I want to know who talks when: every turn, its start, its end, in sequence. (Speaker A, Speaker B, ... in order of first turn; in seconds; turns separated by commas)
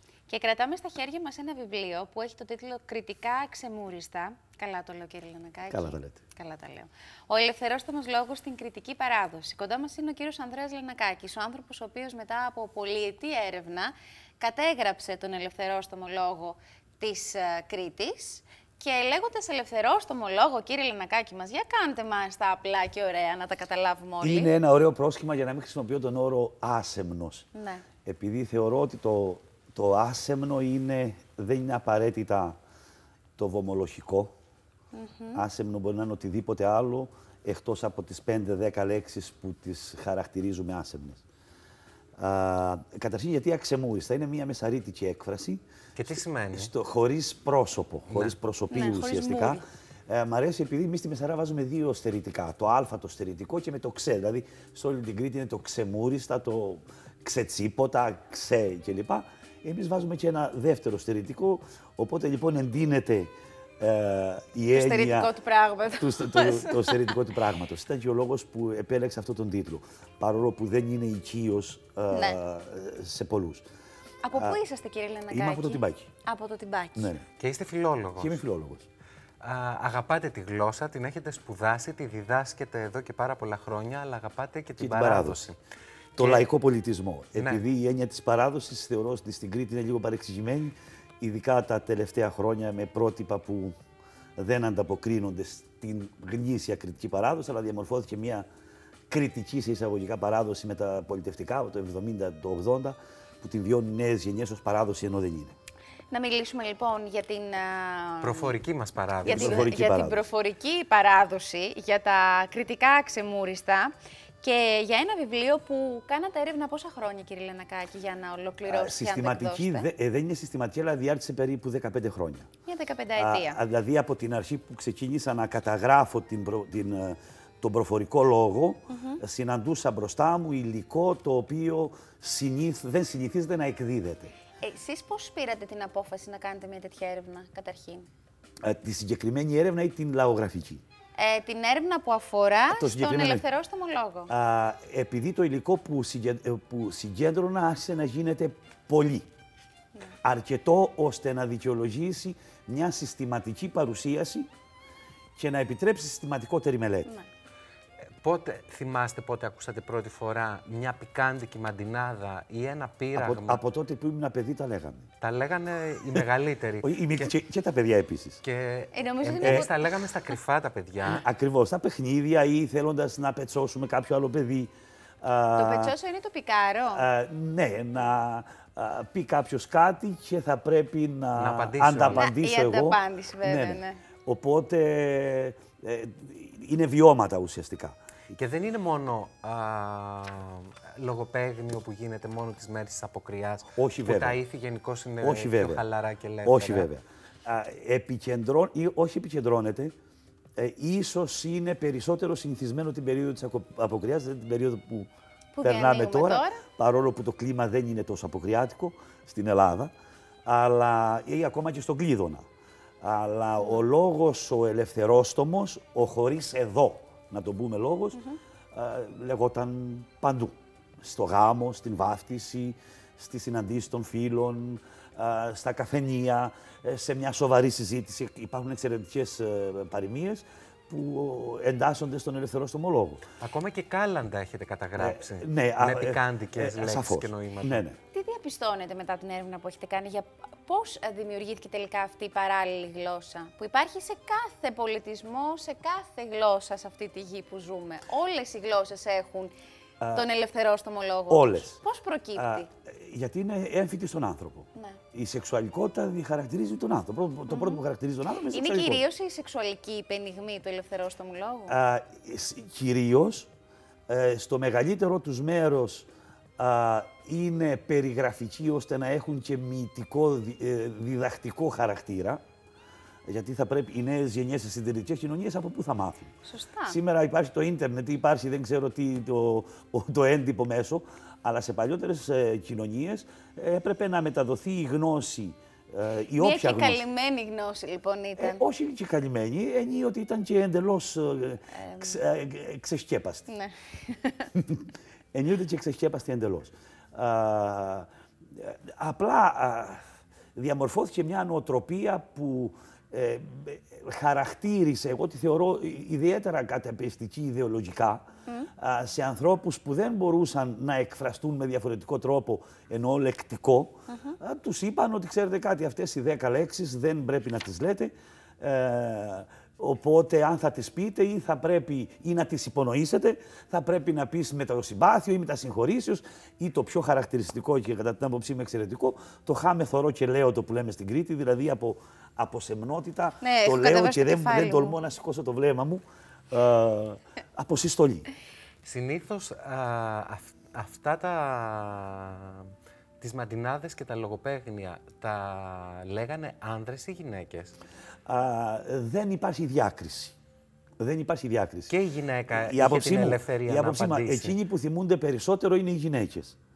Speaker A: 0.3-24.5, Speaker B: 5.7-6.2, Speaker B: 24.2-27.4, Speaker A: 27.5-27.8, Speaker B: 28.0-32.6, Speaker B: 33.4-34.3, Speaker A: 34.9-35.4, Speaker B: 35.3-41.2, Speaker B: 42.2-65.3, Speaker C: 46.0-46.7, Speaker C: 48.1-48.3, Speaker A: 48.7-49.6, Speaker A: 64.7-67.1, Speaker B: 66.0-73.6, Speaker A: 72.1-72.4, Speaker A: 74.2-77.1, Speaker B: 74.3-74.6, Speaker B: 75.3-76.1, Speaker B: 77.0-77.2, Speaker C: 77.4-78.4, Speaker B: 78.2-78.9, Speaker C: 79.4-85.6, Speaker B: 84.8-85.4, Speaker B: 86.2-93.8, Speaker C: 86.2-86.5, Speaker C: 87.3-87.6, Speaker B: 94.4-98.5, Speaker B: 99.1-105.5, Speaker A: 106.1-108.5, Speaker C: 108.2-109.7, Speaker B: 109.2-110.2, Speaker A: 109.2-119.9, Speaker B: 118.7-122.5, Speaker A: 122.7-123.6, Speaker B: 123.2-134.3, Speaker A: 128.9-129.2, Speaker A: 134.6-138.1, Speaker B: 138.6-140.8, Speaker A: 141.2-144.3, Speaker B: 142.7-143.4, Speaker B: 144.3-149.3, Speaker B: 150.2-154.5, Speaker B: 155.3-157.1, Speaker C: 158.2-163.6, Speaker B: 163.1-165.1, Speaker C: 165.2-167.3, Speaker B: 166.8-168.4, Speaker C: 168.4-171.2, Speaker A: 168.9-169.8, Speaker B: 169.4-169.7, Speaker B: 171.0-175.9, Speaker A: 175.6-177.1, Speaker B: 176.9-188.0, Speaker C: 181.3-182.2, Speaker A: 182.1-184.0, Speaker C: 188.3-196.9, Speaker B: 193.8-194.4, Speaker B: 195.2-195.8, Speaker B: 196.4-199.9, Speaker B: 200.6-205.1, Speaker A: 205.5-206.6, Speaker B: 205.6-209.9, Speaker B: 210.4-212.4, Speaker B: 213.0-218.2, Speaker A: 213.6-213.8, Speaker A: 218.1-218.4, Speaker B: 218.7-233.2, Speaker C: 233.4-237.8, Speaker B: 235.0-238.0, Speaker A: 238.1-249.5, Speaker B: 250.0-250.3, Speaker A: 250.1-252.7, Speaker B: 251.3-251.8, Speaker B: 252.3-259.0, Speaker A: 254.7-255.0, Speaker A: 257.5-257.8, Speaker A: 258.5-261.8, Speaker B: 261.7-263.5, Speaker B: 264.1-272.4, Speaker B: 273.2-276.3, Speaker A: 276.4-277.0, Speaker B: 276.9-287.0, Speaker A: 286.4-288.6, Speaker B: 288.4-293.5, Speaker A: 291.7-292.2, Speaker A: 293.5-294.5, Speaker B: 294.5-300.0, Speaker B: 300.5-308.2, Speaker B: 308.8-338.3, Speaker A: 314.1-314.4, Speaker A: 333.4-334.9, Speaker C: 338.8-347.7, Speaker B: 348.2-350.3, Speaker B: 351.0-351.9, Speaker C: 351.9-354.6, Speaker B: 352.5-356.6